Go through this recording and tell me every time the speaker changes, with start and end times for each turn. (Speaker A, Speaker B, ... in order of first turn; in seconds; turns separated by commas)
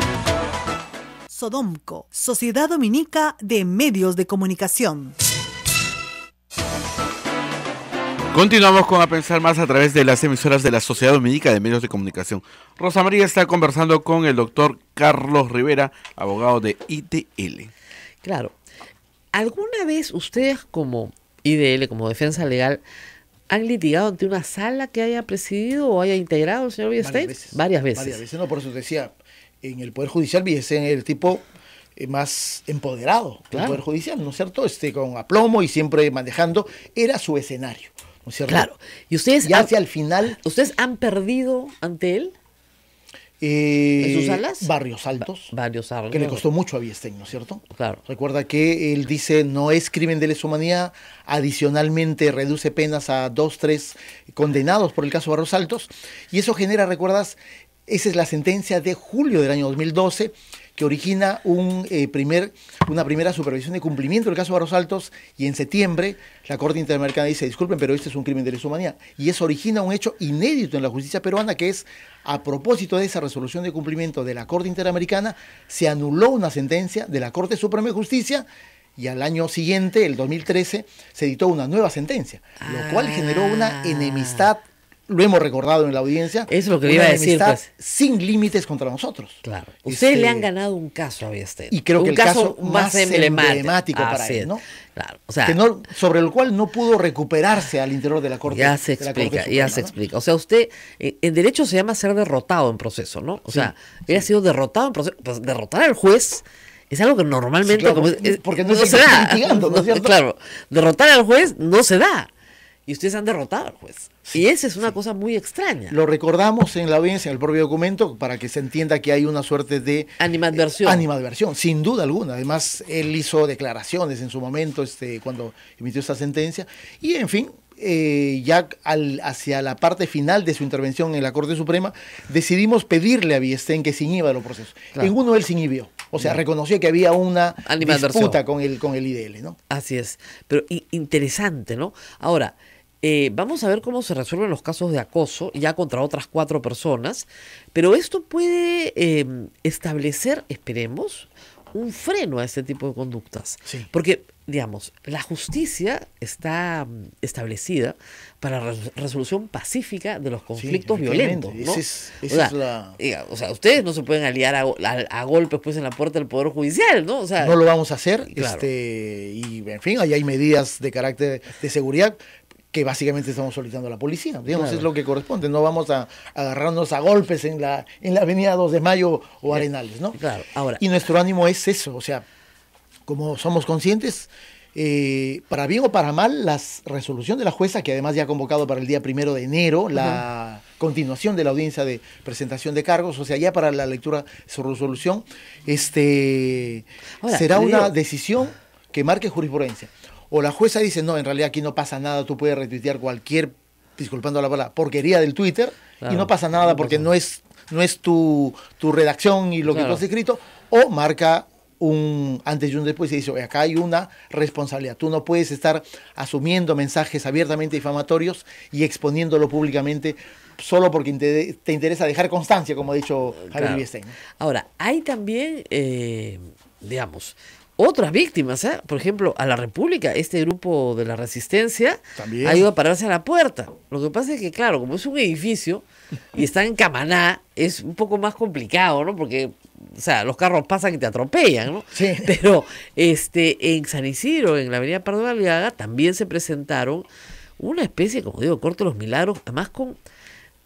Speaker A: 1.3-5.2, Speaker B: 8.3-17.7, Speaker C: 18.2-18.5, Speaker C: 19.3-22.8, Speaker C: 23.5-28.2, Speaker D: 27.0-31.4, Speaker D: 32.0-38.7, Speaker C: 33.5-33.8, Speaker C: 38.5-39.7, Speaker D: 39.4-40.4, Speaker C: 40.2-42.3, Speaker D: 43.4-45.5, Speaker C: 44.0-44.7, Speaker C: 45.5-46.4, Speaker D: 46.1-90.5, Speaker C: 47.7-48.0, Speaker C: 82.6-84.5, Speaker C: 86.5-87.7, Speaker C: 89.4-95.6, Speaker D: 91.7-94.6, Speaker D: 95.4-99.9, Speaker C: 98.5-112.3, Speaker D: 103.5-104.3, Speaker D: 107.6-110.2, Speaker C: 112.9-115.9, Speaker D: 115.9-139.6, Speaker C: 120.2-121.0, Speaker C: 137.7-138.4, Speaker C: 139.7-167.6, Speaker D: 160.6-163.0, Speaker D: 167.4-172.2, Speaker C: 168.3-168.7, Speaker D: 172.7-180.2, Speaker C: 174.5-174.9, Speaker C: 180.2-180.8, Speaker D: 180.8-182.2, Speaker D: 183.1-224.2, Speaker C: 197.2-197.9, Speaker C: 206.0-207.1, Speaker C: 209.7-210.0, Speaker C: 223.4-223.9, Speaker C: 224.4-247.1, Speaker D: 232.2-232.7, Speaker D: 241.9-242.3, Speaker C: 247.6-250.0